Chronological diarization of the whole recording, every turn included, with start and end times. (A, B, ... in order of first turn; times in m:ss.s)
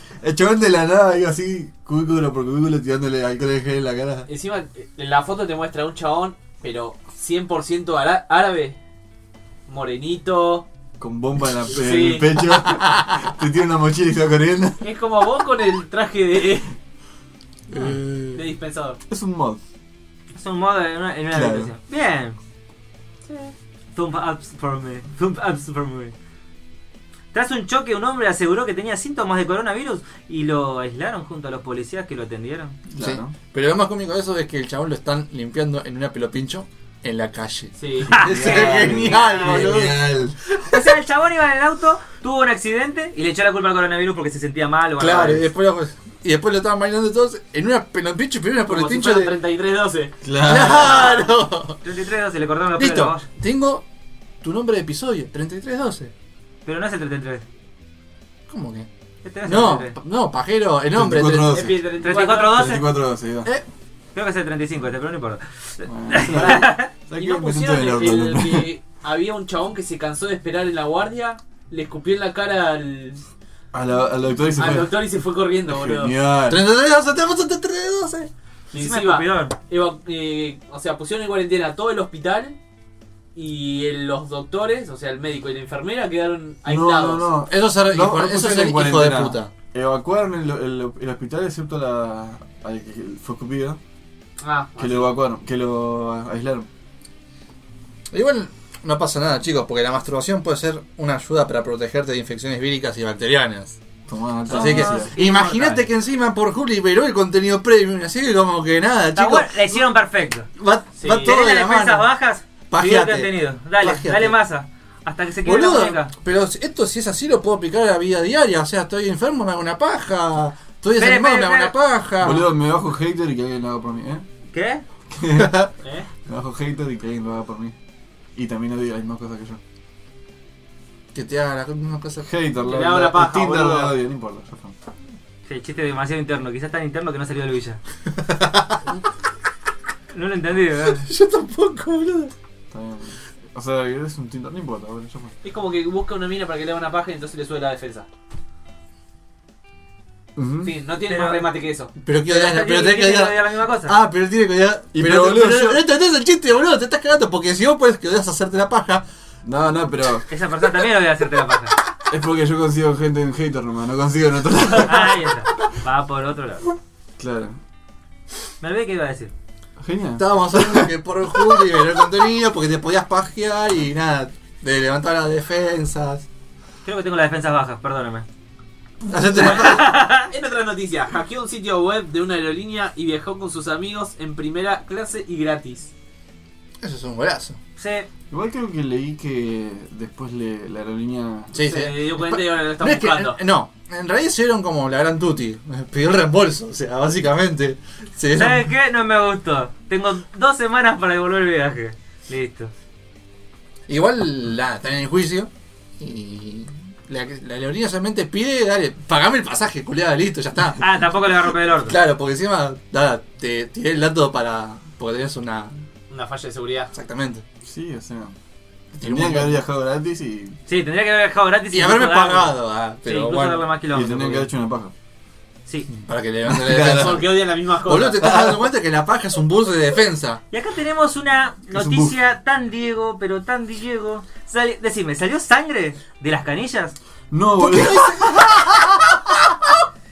0:00.2-0:04.3 A
0:04.3-0:08.8 B
0:09.7-0:10.7 B
0:11.0-0:14.8 A
0:11.7-0:12.4 B
0:14.8-0:16.7 B
0:17.7-0:18.4 C
0:18.3-0:19.0 B
0:19.1-0:19.6 A
0:20.4-0:22.4 D
0:21.3-0:21.7 A
0:23.3-0:23.5 B
0:24.0-0:26.1 D
0:27.3-0:32.8 D
0:32.9-0:33.4 A
0:33.0-0:40.9 C
0:37.8-0:39.7 B
0:38.1-0:38.7 D
0:38.1-0:40.4 A
0:39.4-0:39.7 D
0:40.6-0:45.5 D
0:45.0-0:49.4 C
0:48.6-0:50.2 B
0:50.2-0:51.2 A
0:50.4-0:51.8 C
0:51.8-0:53.2 D
0:52.8-0:53.8 C
0:54.4-0:56.1 C
0:56.7-0:57.4 D
0:58.5-0:58.9 C
0:59.2-1:00.0 D
0:59.4-1:01.7 C
1:00.9-1:01.8 A
1:01.5-1:02.7 B
1:02.0-1:02.9 D
1:02.5-1:03.5 A
1:04.2-1:06.9 D
1:05.8-1:08.7 A
1:06.2-1:13.2 B
1:13.7-1:15.1 A
1:14.6-1:16.1 B
1:15.7-1:16.6 A
1:16.5-1:18.3 C
1:18.7-1:22.6 B
1:18.7-1:19.5 D
1:23.4-1:27.4 B
1:26.7-1:33.8 A
1:27.5-1:29.5 C
1:34.4-1:35.1 B
1:34.8-1:36.7 A
1:38.1-1:43.8 C
1:44.1-1:45.1 A
1:44.5-1:45.9 D
1:44.5-1:49.8 C
1:49.2-1:50.5 D
1:50.6-1:52.1 C
1:51.0-1:51.4 B
1:51.0-1:56.1 D
1:52.7-1:54.4 C
1:55.4-2:02.5 C
2:01.0-2:01.7 D
2:02.2-2:04.2 A
2:04.5-2:04.8 D
2:05.1-2:05.6 A
2:05.4-2:05.7 C
2:05.8-2:06.1 B
2:06.2-2:07.7 A
2:08.4-2:09.6 A
2:11.1-2:12.3 C
2:12.2-2:14.8 A
2:12.7-2:14.0 B
2:15.5-2:17.8 D
2:18.3-2:18.8 C
2:20.1-2:21.1 D
2:20.8-2:22.3 C
2:22.7-2:25.3 A
2:25.4-2:28.1 B
2:30.4-2:30.8 A
2:30.6-2:31.9 B
2:31.1-2:31.4 D
2:32.0-2:39.0 C
2:32.3-2:34.0 D
2:34.9-2:35.8 A
2:39.4-2:40.3 A
2:40.3-2:41.8 D
2:42.1-2:45.4 A
2:44.9-2:46.7 D
2:47.2-2:47.6 A
2:48.6-2:49.3 D
2:49.8-2:50.9 A
2:50.2-2:56.3 C
2:56.8-2:58.2 D
2:59.1-2:59.9 C
2:59.3-3:00.3 D
3:00.3-3:05.9 B
3:06.8-3:07.6 C
3:07.8-3:08.1 D
3:08.3-3:11.7 A
3:11.5-3:18.7 C
3:11.6-3:13.4 B
3:18.3-3:22.7 D
3:23.9-3:30.9 C
3:30.8-3:32.0 D
3:31.9-3:35.8 C
3:36.1-3:36.9 B
3:36.9-3:37.4 C
3:37.6-3:38.4 A
3:38.9-3:39.6 C
3:39.0-3:40.6 A
3:40.7-3:44.5 D
3:41.7-3:43.7 C
3:43.9-3:44.9 A
3:45.9-3:50.4 C
3:46.5-3:47.3 A
3:46.8-3:48.2 B
3:48.2-3:48.7 A
3:50.5-3:57.0 D
3:51.7-3:52.2 A
3:57.3-3:58.4 A
3:57.6-3:59.4 C